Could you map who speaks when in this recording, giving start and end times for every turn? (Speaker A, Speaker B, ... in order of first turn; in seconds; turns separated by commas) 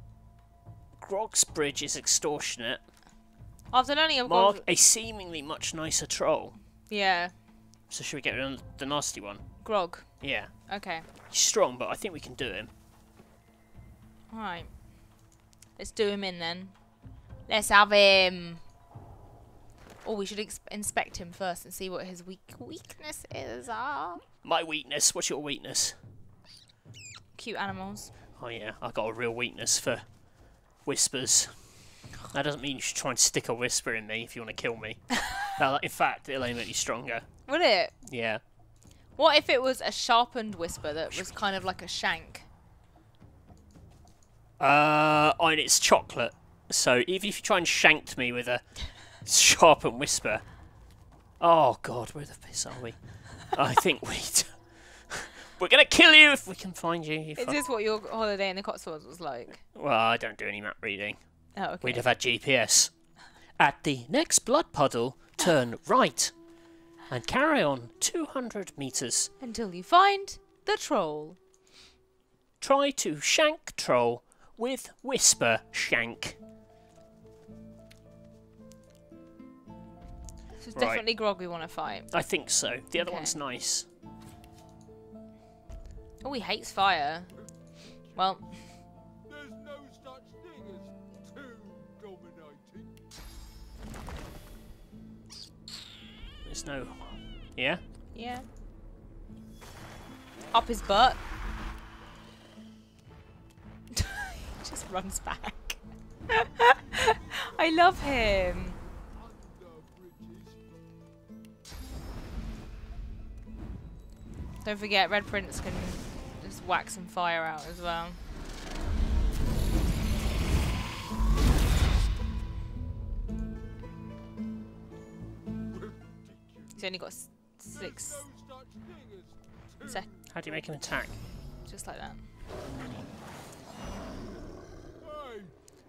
Speaker A: 1.0-2.8, Speaker B: 3.7-4.6, Speaker A: 4.2-6.6, Speaker B: 6.9-7.3, Speaker A: 7.9-9.7, Speaker B: 9.6-11.1, Speaker A: 10.2-12.7, Speaker B: 14.3-14.7, Speaker B: 15.8-16.8, Speaker B: 17.5-18.6, Speaker B: 20.0-24.2, Speaker A: 24.4-26.0, Speaker B: 27.3-28.1, Speaker A: 28.4-30.1, Speaker A: 30.8-37.3, Speaker B: 37.5-37.9, Speaker A: 38.0-38.4, Speaker B: 39.2-42.5, Speaker A: 41.1-41.4, Speaker A: 44.6-50.4, Speaker A: 51.4-57.6, Speaker B: 57.4-59.6, Speaker A: 59.6-61.2, Speaker B: 61.5-62.0, Speaker A: 61.8-62.9, Speaker A: 63.6-66.3, Speaker A: 67.1-69.3, Speaker B: 69.4-71.4, Speaker A: 72.6-76.4, Speaker B: 80.6-82.1, Speaker A: 80.8-81.0, Speaker A: 82.1-83.8, Speaker B: 82.9-83.3, Speaker B: 86.2-87.3, Speaker C: 87.3-93.0, Speaker B: 88.1-88.5, Speaker A: 96.4-97.8, Speaker B: 98.1-98.4, Speaker B: 100.5-101.2, Speaker B: 104.0-105.8, Speaker B: 106.3-108.8, Speaker C: 106.6-110.8, Speaker B: 114.6-118.2, Speaker C: 125.7-130.8, Speaker B: 126.8-128.2, Speaker A: 130.3-131.2, Speaker B: 131.7-132.2, Speaker C: 135.0-135.6